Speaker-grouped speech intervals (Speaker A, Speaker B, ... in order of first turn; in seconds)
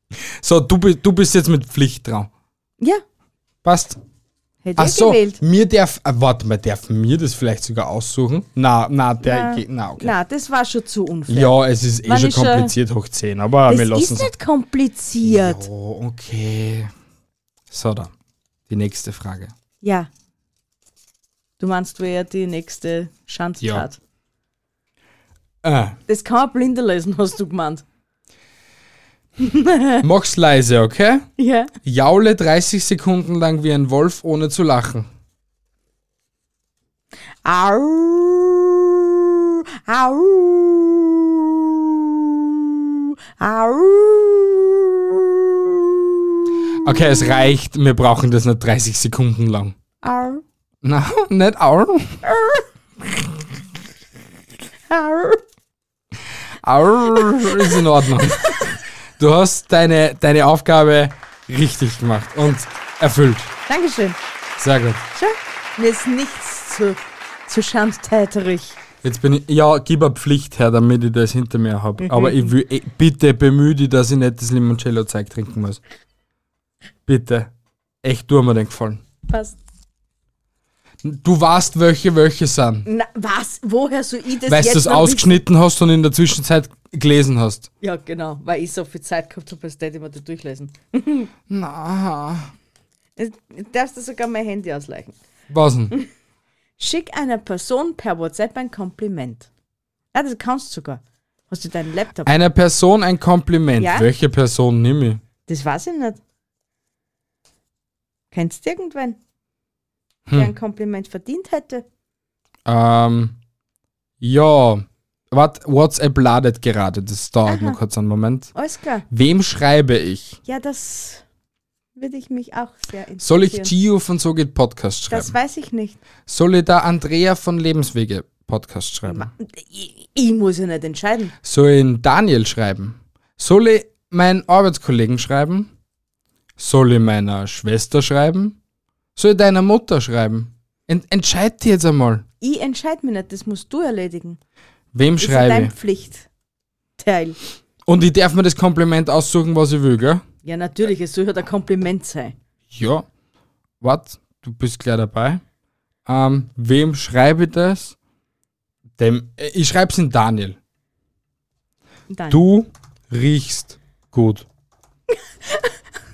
Speaker A: 0.4-2.3, 3.6-4.0, 4.8-10.1, 11.3-14.3, 15.2-16.9, 17.7-18.1, 18.7-19.5, 23.6-23.9, 25.6-26.0, 30.0-31.3, 31.8-35.1, 46.8-49.8, 50.8-52.3, 56.6-63.5, 64.6-65.0, 69.0-75.8, 77.1-77.5, 78.0-79.0, 81.0-82.9, 84.5-87.7, 91.5-92.5, 95.5-96.0, 102.2-105.2, 110.3-110.5, 112.7-113.4, 114.2-118.5, 119.1-120.4, 123.2-125.3, 126.3-129.3, 131.4-135.7, 136.6-138.6, 139.2-142.2, 144.9-145.7, 147.9-150.2, 152.7-153.1, 153.8-155.4, 156.1-158.0, 159.0-160.6, 162.3-164.5
Speaker B: 4.6-5.4, 9.2-12.8, 13.7-15.7, 19.8-20.1, 21.6-24.0, 26.1-27.8, 29.4-30.0, 31.4-31.7, 37.4-47.0, 50.0-50.4, 54.9-55.4, 63.7-64.2, 65.1-68.8, 72.0-72.5, 79.3-79.6, 82.8-85.4, 87.8-91.3, 93.2-95.2, 96.8-99.5, 100.1-102.3, 103.8-104.1, 105.5-106.2, 108.3-109.2, 110.3-111.8, 117.5-117.8, 118.5-119.1, 120.5-121.2, 122.0-123.7, 125.1-126.0, 129.1-131.3, 142.4-144.4, 145.2-146.3, 147.0-147.4, 150.4-152.3, 162.1-162.4, 165.5-165.7